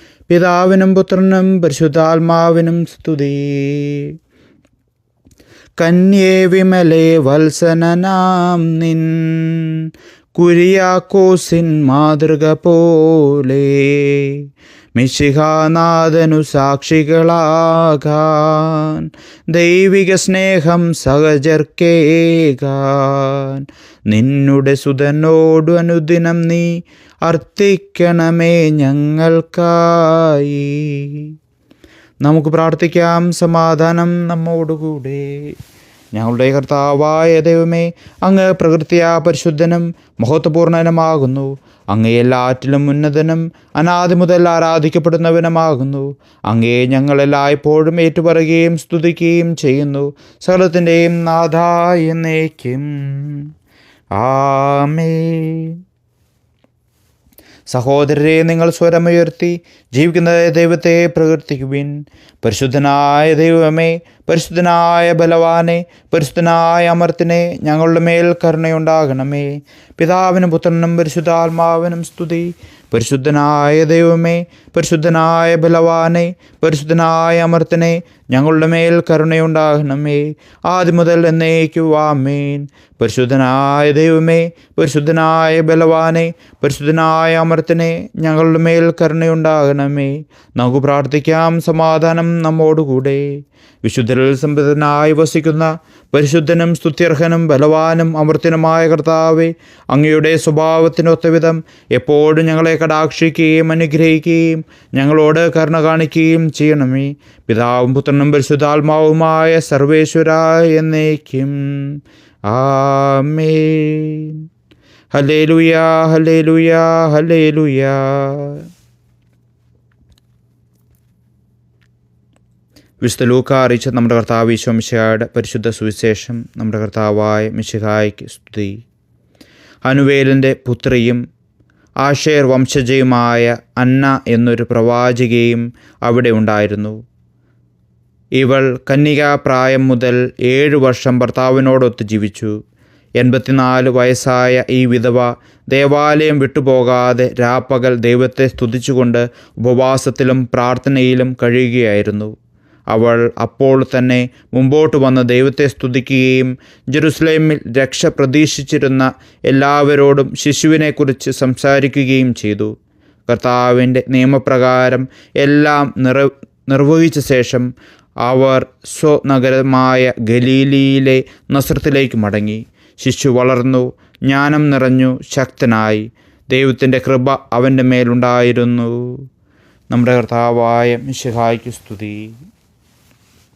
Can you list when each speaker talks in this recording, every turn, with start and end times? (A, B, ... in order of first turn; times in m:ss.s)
0:00.3-0:04.2 A
0:05.8-0:14.4 A
0:15.0-0:31.3 A
0:32.2-0:35.5 A
0:36.1-0:53.5 A
0:54.2-0:55.8 A
0:57.7-1:33.2 A
1:33.8-1:54.4 A
1:55.1-1:58.6 A
2:03.0-2:08.8 A
2:09.9-2:11.2 A
2:12.0-2:17.0 A
2:18.4-2:22.6 A
2:23.2-2:32.3 A
2:32.9-2:42.7 A
2:43.3-2:47.7 A
2:48.3-2:59.2 A
2:59.9-3:02.3 A